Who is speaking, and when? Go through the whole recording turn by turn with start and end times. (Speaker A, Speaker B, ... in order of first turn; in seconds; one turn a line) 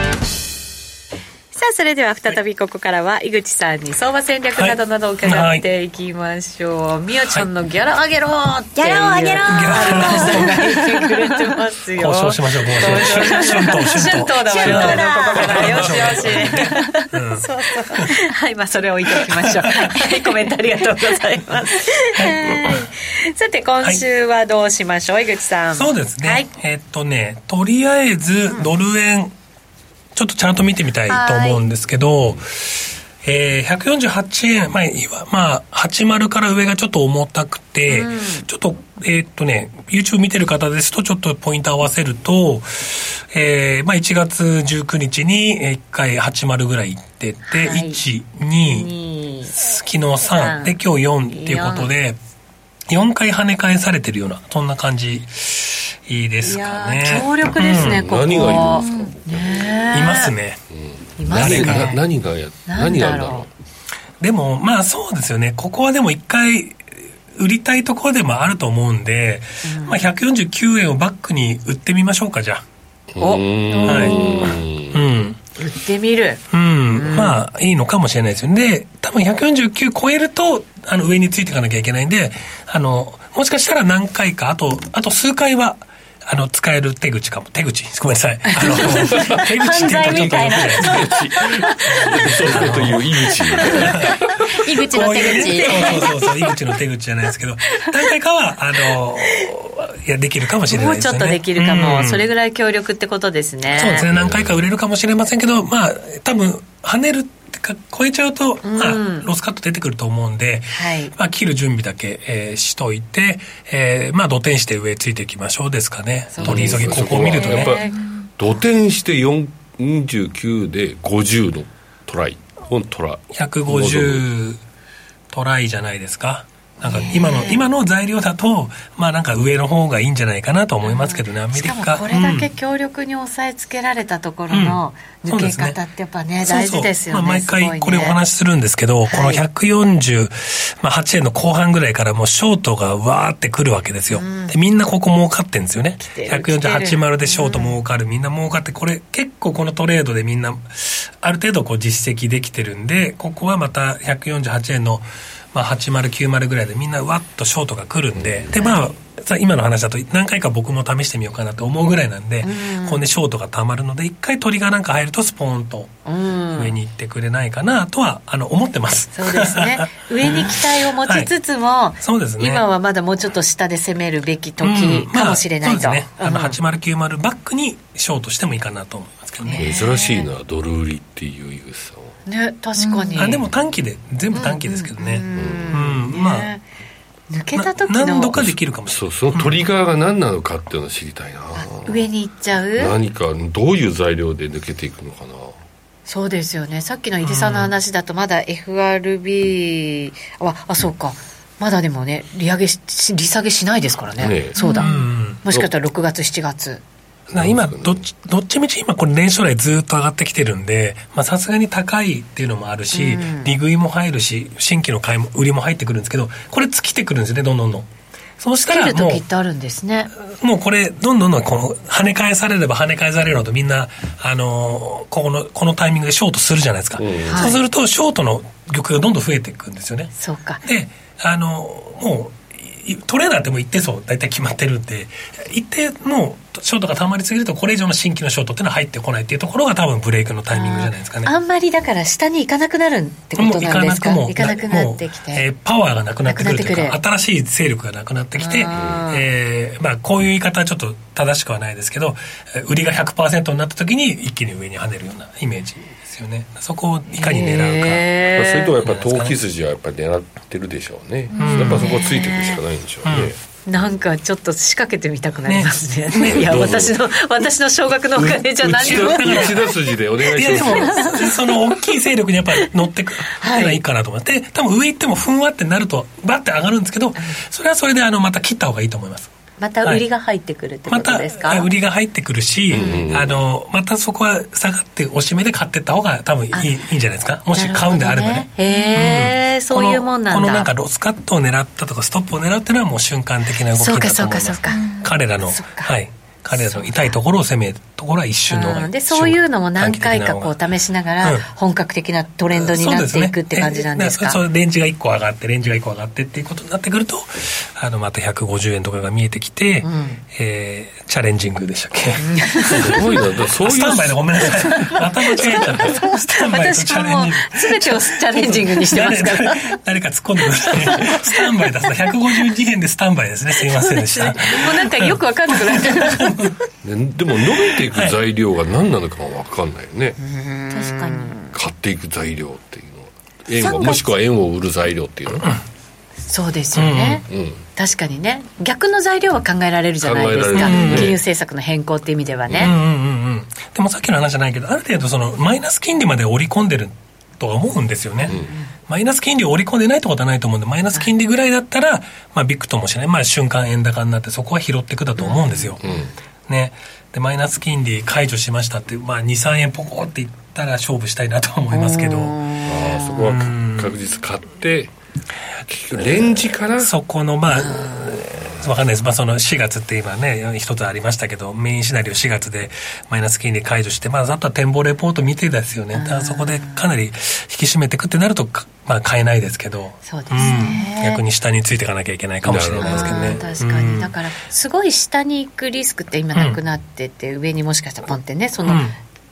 Speaker A: 1.5-26.5
Speaker B: 4.6-5.7
Speaker C: 8.8-11.5
Speaker B: 9.4-10.5
Speaker B: 12.0-17.5
Speaker C: 12.8-16.9
Speaker B: 19.3-19.9
Speaker B: 22.2-22.8
Speaker B: 25.8-29.3
Speaker B: 30.1-48.9
Speaker A: 31.1-31.6
Speaker A: 37.9-38.5
Speaker A: 47.5-48.0
Speaker A: 48.6-49.5
Speaker B: 49.5-52.2
Speaker A: 50.4-50.8
Speaker A: 51.3-51.9
Speaker B: 52.9-58.0
Speaker A: 56.4-60.3
Speaker D: 57.5-59.9
Speaker C: 58.4-59.1
Speaker B: 59.9-60.6
Speaker D: 60.7-63.5
Speaker A: 61.2-62.0
Speaker B: 61.3-61.9
Speaker A: 62.7-63.5
Speaker B: 64.2-66.8
Speaker B: 67.3-72.6
Speaker A: 69.7-70.1
Speaker D: 73.1-75.1
Speaker A: 73.2-74.6
Speaker B: 73.9-75.4
Speaker A: 75.6-76.4
Speaker B: 76.5-90.9
Speaker A: 76.9-77.5
Speaker C: 88.5-92.3
Speaker D: 90.1-94.2
Speaker B: 91.9-94.2
Speaker C: 93.3-96.2
Speaker B: 94.9-102.2
Speaker A: 95.2-96.0
Speaker A: 100.7-104.1
Speaker B: 103.8-117.8
Speaker D: 104.1-104.6
Speaker A: 108.6-109.3
Speaker A: 110.7-111.1
Speaker A: 116.3-118.0
Speaker D: 116.4-124.3
Speaker B: 123.3-124.6
Speaker B: 125.3-132.5
Speaker A: 126.8-127.7
Speaker A: 130.8-138.2
Speaker B: 134.5-135.8
Speaker B: 136.4-166.0
Speaker A: 139.1-139.4
Speaker A: 144.1-144.6
Speaker A: 146.0-147.8
Speaker D: 158.1-158.6
Speaker A: 158.6-158.9
Speaker A: 162.4-163.0
Speaker A: 166.1-166.7
Speaker B: 166.6-171.3
Speaker A: 169.1-176.6
Speaker B: 172.0-172.7
Speaker B: 174.6-179.8
Speaker A: 179.4-180.3
Speaker D: 179.6-182.2
Speaker A: 182.3-183.4
Speaker C: 182.8-183.3
Speaker B: 183.2-186.5
Speaker A: 184.3-186.6
Speaker D: 185.3-186.0
Speaker A: 187.3-188.4
Speaker B: 187.6-189.5
Speaker D: 188.3-192.1
Speaker A: 191.6-192.9
Speaker D: 192.8-195.6
Speaker A: 196.1-206.8
Speaker B: 197.2-197.7
Speaker D: 204.2-204.6
Speaker C: 204.6-204.9
Speaker B: 204.6-205.4
Speaker D: 207.3-208.1
Speaker B: 207.3-217.9
Speaker A: 212.9-213.5
Speaker B: 218.4-219.2
Speaker A: 218.7-220.1
Speaker B: 220.3-241.3
Speaker D: 227.0-227.6
Speaker A: 227.2-227.6
Speaker A: 230.2-230.6
Speaker A: 240.5-245.4
Speaker B: 243.4-258.1
Speaker A: 246.3-247.0
Speaker A: 248.4-249.3
Speaker D: 248.8-249.1
Speaker A: 257.1-258.8
Speaker D: 258.4-263.4
Speaker B: 258.8-259.4
Speaker A: 261.4-262.6
Speaker B: 261.4-261.9
Speaker B: 263.1-263.3
Speaker A: 263.7-269.6
Speaker B: 265.5-266.7
Speaker D: 266.2-267.0
Speaker D: 268.1-271.4
Speaker B: 268.6-279.3
Speaker A: 270.9-271.7
Speaker A: 272.6-273.8
Speaker A: 279.6-281.7
Speaker B: 280.9-300.6
Speaker D: 282.7-283.4
Speaker A: 282.7-283.0
Speaker A: 287.5-290.7
Speaker A: 293.7-295.9
Speaker C: 294.7-295.1
Speaker A: 296.5-297.2
Speaker A: 298.5-304.4
Speaker B: 302.5-326.5
Speaker A: 309.8-310.2
Speaker A: 312.2-313.2
Speaker D: 312.8-314.4
Speaker A: 314.6-319.8
Speaker A: 320.6-322.4
Speaker A: 323.6-326.6
Speaker D: 326.8-330.2
Speaker B: 327.8-328.2
Speaker A: 330.2-331.5
Speaker C: 330.7-331.4
Speaker D: 331.5-335.5
Speaker A: 333.6-334.1
Speaker A: 336.3-342.8
Speaker B: 336.8-337.2
Speaker D: 337.3-337.6
Speaker D: 340.0-341.2
Speaker B: 340.5-341.2
Speaker D: 342.5-342.8
Speaker B: 342.6-355.8
Speaker A: 348.2-348.7
Speaker D: 348.3-348.6
Speaker A: 355.2-356.1
Speaker D: 355.8-356.1
Speaker B: 356.5-362.5
Speaker A: 361.7-363.1
Speaker D: 362.6-364.9
Speaker B: 363.1-364.0
Speaker D: 365.7-366.9
Speaker B: 366.8-384.1
Speaker A: 367.6-368.1
Speaker A: 375.9-376.9
Speaker A: 380.1-381.2
Speaker C: 380.4-380.7
Speaker D: 382.4-383.4
Speaker A: 382.8-389.0
Speaker B: 386.4-386.6
Speaker B: 388.6-388.9